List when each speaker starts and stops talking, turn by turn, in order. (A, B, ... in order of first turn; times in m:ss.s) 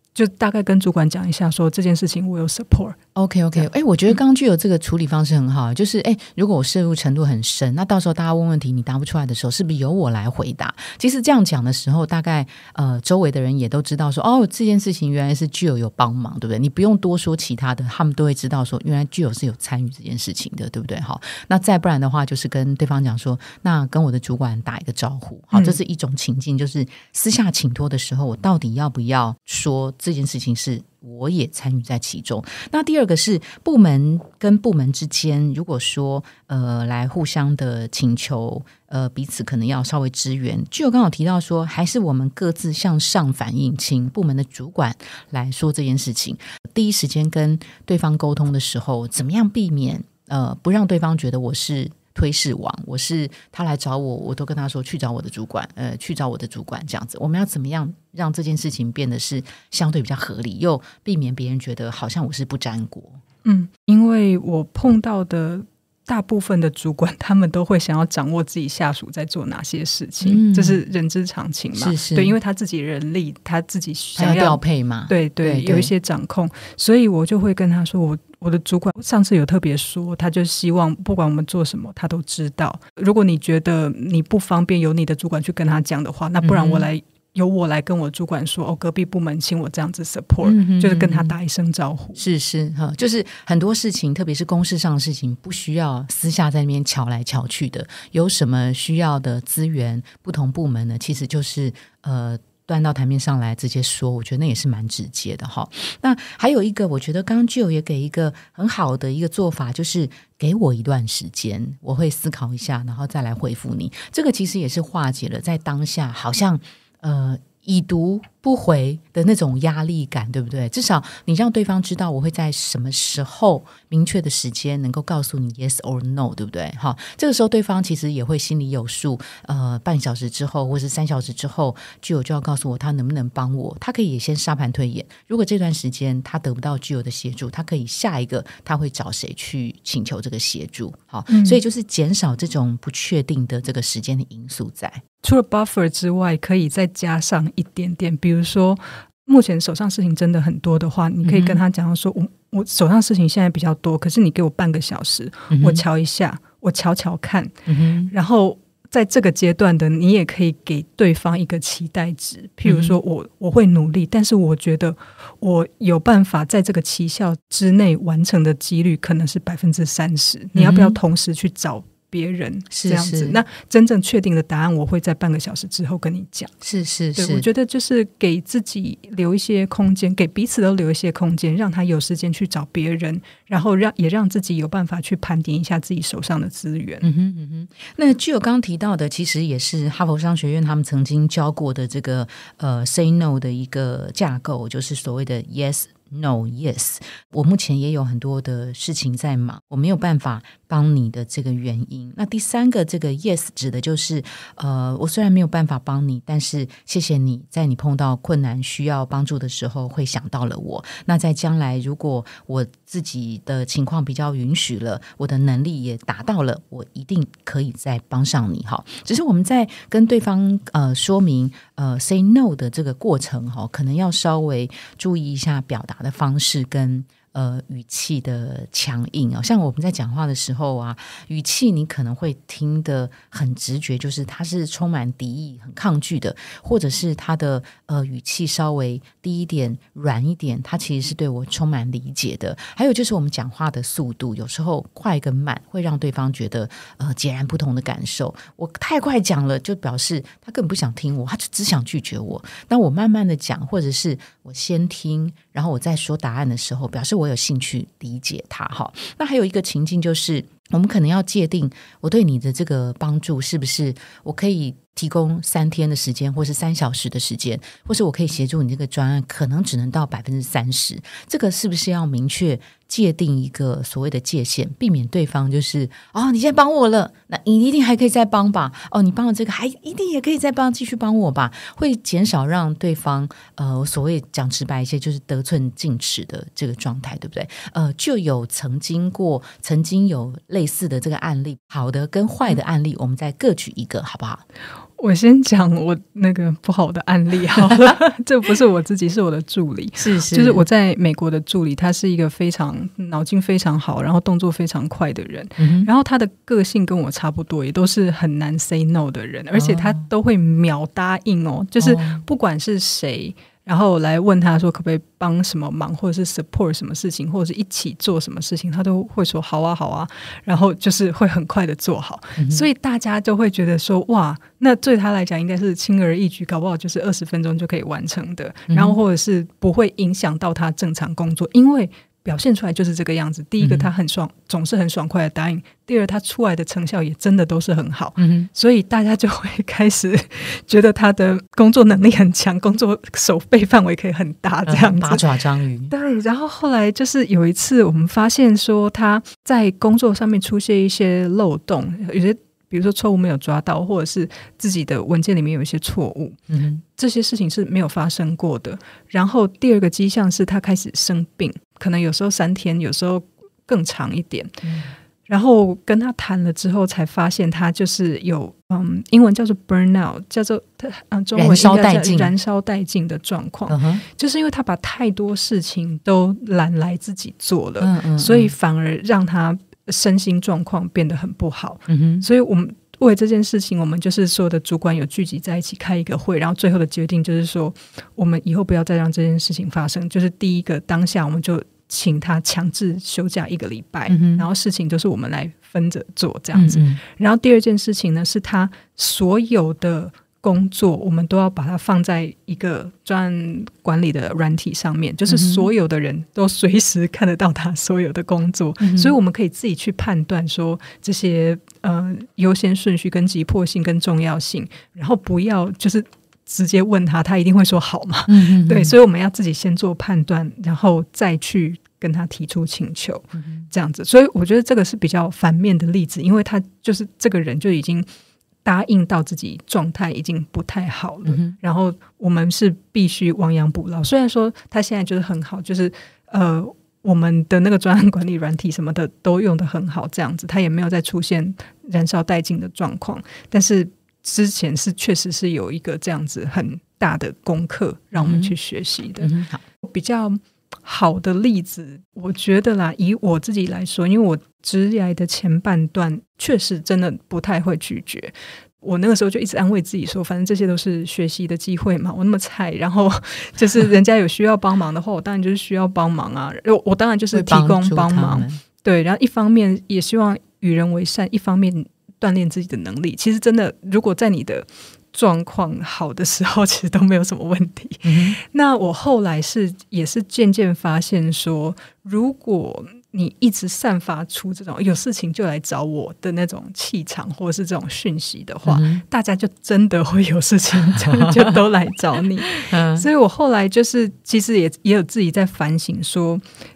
0:00.2-0:03.0 A
0:03.2-1:03.2 B
0:25.5-0:25.8 A
1:03.4-1:32.2 A
1:10.2-1:10.8 B
1:11.8-1:12.4 B
1:14.2-1:15.9 B
1:26.4-1:26.9 B
1:30.4-1:31.4 B
1:32.2-2:25.0 B
2:21.3-2:21.6 A
2:25.2-2:37.5 A
2:31.2-2:31.6 B
2:35.5-2:35.8 B
2:37.7-2:38.1 B
2:38.1-2:56.5 A
2:42.6-2:43.0 B
2:50.6-2:51.0 B
2:52.7-2:53.4 B
2:56.6-2:57.5 B
2:57.2-3:07.1 A
3:07.0-4:54.4 B
4:55.0-5:45.3 A
5:00.0-5:00.7 B
5:05.6-5:05.9 B
5:09.6-5:10.0 B
5:11.8-5:12.2 B
5:22.4-5:22.6 B
5:28.7-5:29.0 B
5:33.6-5:33.9 B
5:38.2-5:38.5 B
5:44.7-5:45.9 B
5:45.9-5:56.4 A
5:56.5-5:56.8 B
5:56.9-6:04.6 A
6:04.6-6:04.9 B
6:05.3-7:08.1 A
6:11.4-6:12.3 B
6:13.7-6:14.0 B
6:17.8-6:18.5 B
6:21.9-6:22.3 B
6:34.1-6:34.5 B
6:36.5-6:37.0 B
6:45.3-6:45.7 B
6:48.8-6:49.2 B
6:58.3-6:58.9 B
7:03.4-7:03.7 B
7:08.6-7:29.3 A
7:11.2-7:11.6 B
7:28.2-7:28.5 B
7:29.2-7:29.6 B
7:29.8-8:16.4 A
7:47.3-7:48.6 B
7:58.0-7:58.4 B
8:08.7-8:09.0 B
8:10.9-8:11.5 B
8:12.6-8:13.1 B